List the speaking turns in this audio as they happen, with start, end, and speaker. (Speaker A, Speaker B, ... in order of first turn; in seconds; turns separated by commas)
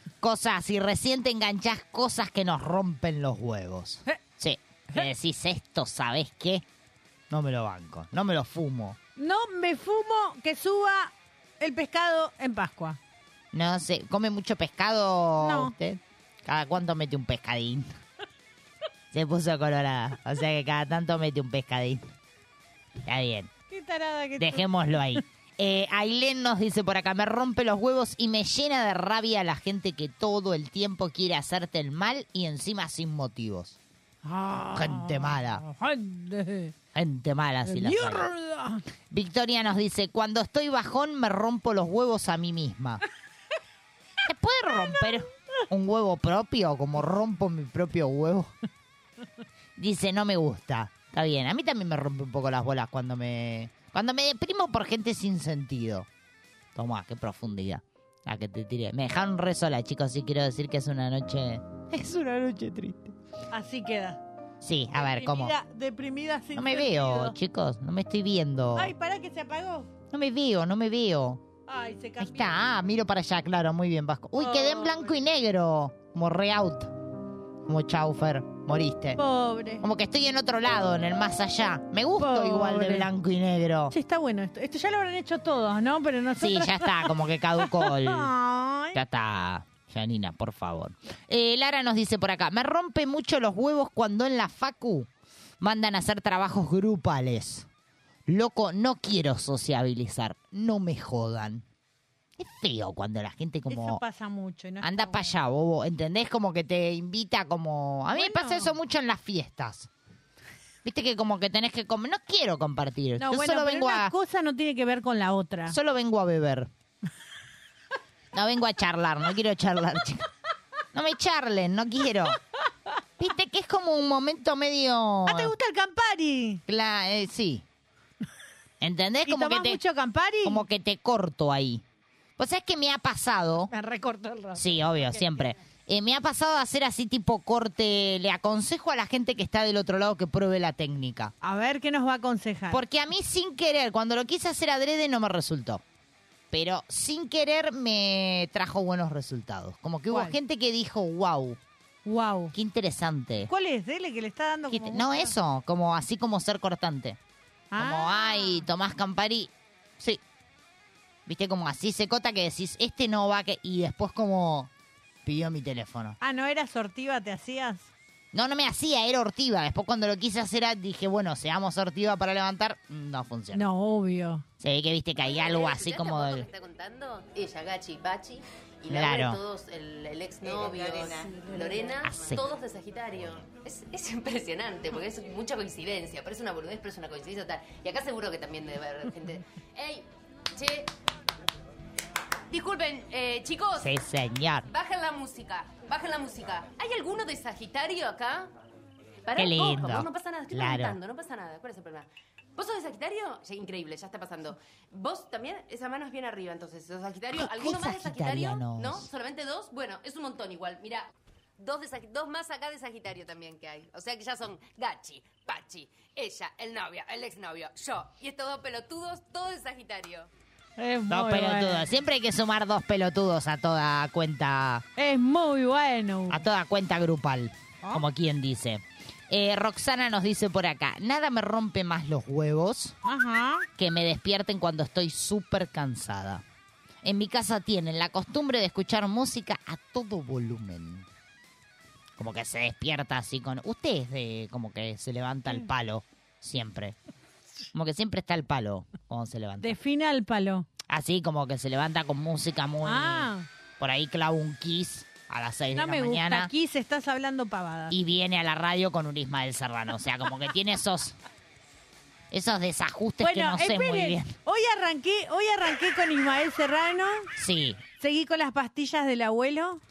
Speaker A: 0.2-6.6, Speaker A: 7.3-9.0, Speaker B: 9.2-13.0, Speaker A: 13.5-17.9, Speaker B: 15.4-15.8, Speaker A: 19.1-22.0, Speaker A: 23.1-23.5, Speaker B: 23.7-24.7, Speaker A: 24.4-33.8, Speaker B: 34.2-36.7, Speaker A: 34.7-35.6, Speaker A: 36.9-38.3, Speaker B: 37.7-38.8, Speaker A: 39.1-43.0, Speaker A: 44.2-48.5, Speaker A: 49.8-56.1, Speaker A: 56.8-63.1, Speaker B: 63.5-64.2, Speaker A: 64.6-65.5, Speaker B: 65.0-67.3, Speaker A: 66.5-68.9, Speaker B: 68.8-69.9, Speaker A: 70.1-71.4, Speaker B: 71.7-72.6, Speaker A: 72.2-77.0, Speaker B: 74.4-75.2, Speaker A: 77.7-79.2, Speaker B: 79.2-79.8, Speaker A: 79.8-83.9, Speaker B: 82.2-83.1, Speaker B: 83.9-89.0, Speaker A: 86.4-88.3, Speaker A: 88.9-95.1, Speaker A: 95.6-97.7, Speaker A: 98.3-101.7, Speaker A: 102.4-104.0, Speaker B: 103.7-105.3, Speaker A: 104.8-109.9, Speaker B: 108.1-108.7, Speaker A: 110.8-114.1, Speaker B: 113.2-115.8, Speaker A: 115.7-116.7, Speaker A: 118.3-120.3, Speaker A: 120.9-122.4, Speaker A: 123.2-125.5, Speaker B: 125.3-126.6, Speaker A: 126.7-127.6, Speaker A: 128.8-129.8, Speaker B: 129.3-130.7, Speaker A: 130.4-131.8, Speaker A: 132.4-133.7, Speaker B: 133.7-135.4, Speaker A: 134.6-141.3, Speaker B: 141.4-142.8, Speaker A: 142.7-145.8, Speaker A: 146.5-151.6, Speaker B: 150.1-150.4, Speaker B: 152.1-152.5, Speaker A: 152.5-153.5, Speaker B: 153.5-155.3, Speaker A: 154.7-157.2, Speaker B: 157.7-158.7, Speaker A: 157.8-160.2, Speaker A: 161.3-164.7, Speaker A: 165.2-166.2, Speaker B: 166.2-167.9, Speaker A: 168.3-173.6, Speaker B: 173.5-174.4, Speaker A: 174.6-176.5, Speaker C: 175.2-190.9, Speaker A: 178.9-179.4, Speaker A: 182.0-182.4, Speaker C: 192.5-193.9, Speaker A: 193.8-194.7, Speaker C: 194.7-198.5, Speaker C: 199.3-220.3, Speaker A: 199.4-201.0, Speaker A: 207.3-209.1, Speaker B: 220.8-221.9, Speaker A: 221.1-224.8, Speaker B: 225.0-226.4, Speaker A: 226.3-233.0, Speaker B: 233.1-233.7, Speaker A: 233.8-236.4, Speaker A: 237.0-241.1, Speaker A: 242.2-247.0, Speaker A: 247.7-249.8, Speaker B: 249.6-250.7, Speaker A: 250.9-256.5, Speaker B: 252.8-253.5, Speaker B: 255.7-257.9, Speaker A: 257.9-261.2, Speaker A: 262.3-264.3, Speaker B: 263.2-267.3, Speaker A: 267.4-267.8, Speaker B: 268.0-269.8